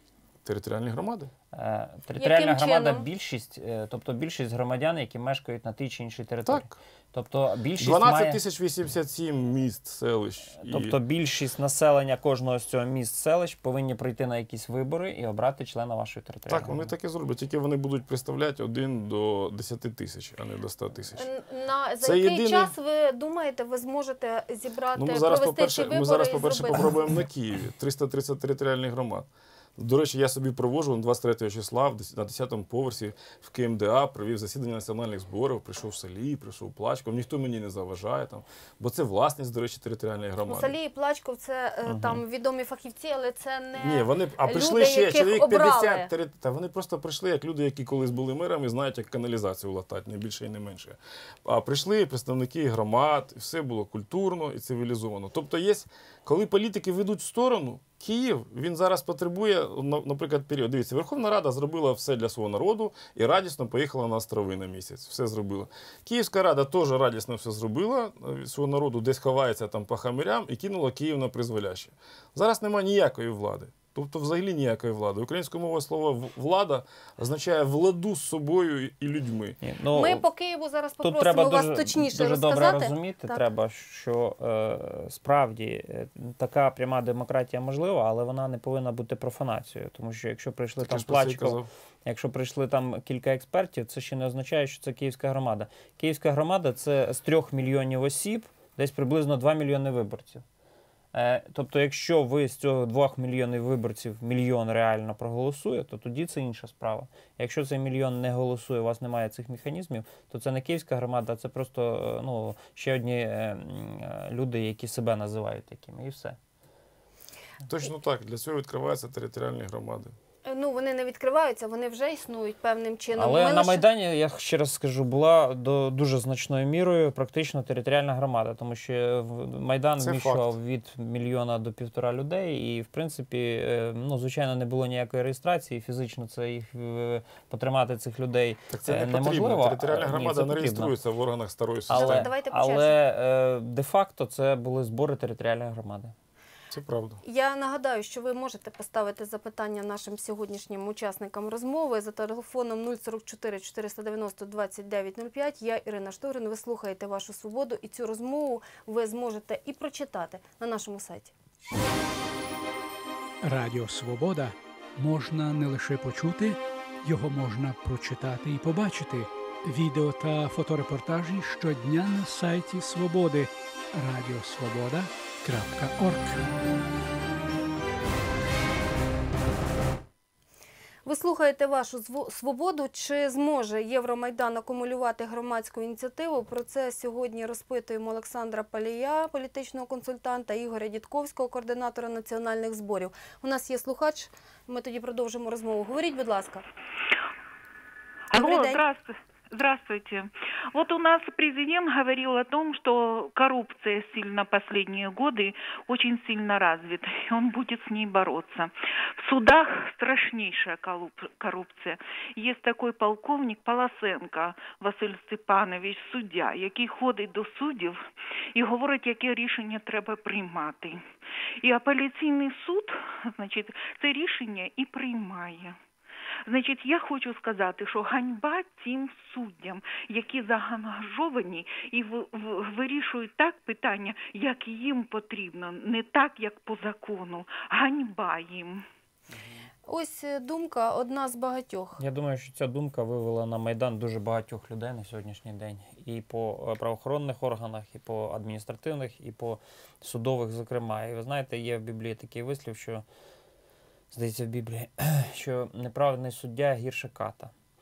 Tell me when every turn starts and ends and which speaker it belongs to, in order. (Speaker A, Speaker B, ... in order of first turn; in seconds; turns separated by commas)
Speaker A: 0.4-1.3, Speaker B: 1.5-8.4, Speaker C: 2.2-3.1, Speaker A: 6.5-6.8, Speaker A: 7.8-10.9, Speaker B: 10.6-16.9, Speaker A: 16.5-21.3, Speaker C: 21.1-26.9, Speaker A: 22.0-22.7, Speaker A: 24.9-40.8, Speaker C: 40.4-46.1, Speaker B: 41.9-42.2, Speaker A: 43.7-79.6, Speaker B: 79.6-80.2, Speaker C: 79.9-83.4, Speaker B: 81.0-100.4, Speaker A: 90.8-91.7, Speaker B: 101.1-116.4, Speaker A: 117.7-120.1, Speaker C: 120.4-123.8, Speaker B: 123.2-140.9, Speaker A: 130.0-130.5, Speaker A: 138.7-142.3, Speaker B: 141.9-146.1, Speaker C: 141.9-143.0, Speaker A: 146.7-147.2, Speaker C: 147.2-161.3, Speaker D: 163.4-176.5, Speaker C: 181.0-196.7, Speaker E: 198.3-218.0, Speaker C: 198.3-198.8, Speaker E: 218.5-221.0, Speaker E: 221.6-225.8, Speaker E: 226.4-238.8, Speaker C: 239.8-242.0, Speaker B: 242.0-253.0, Speaker B: 254.1-257.5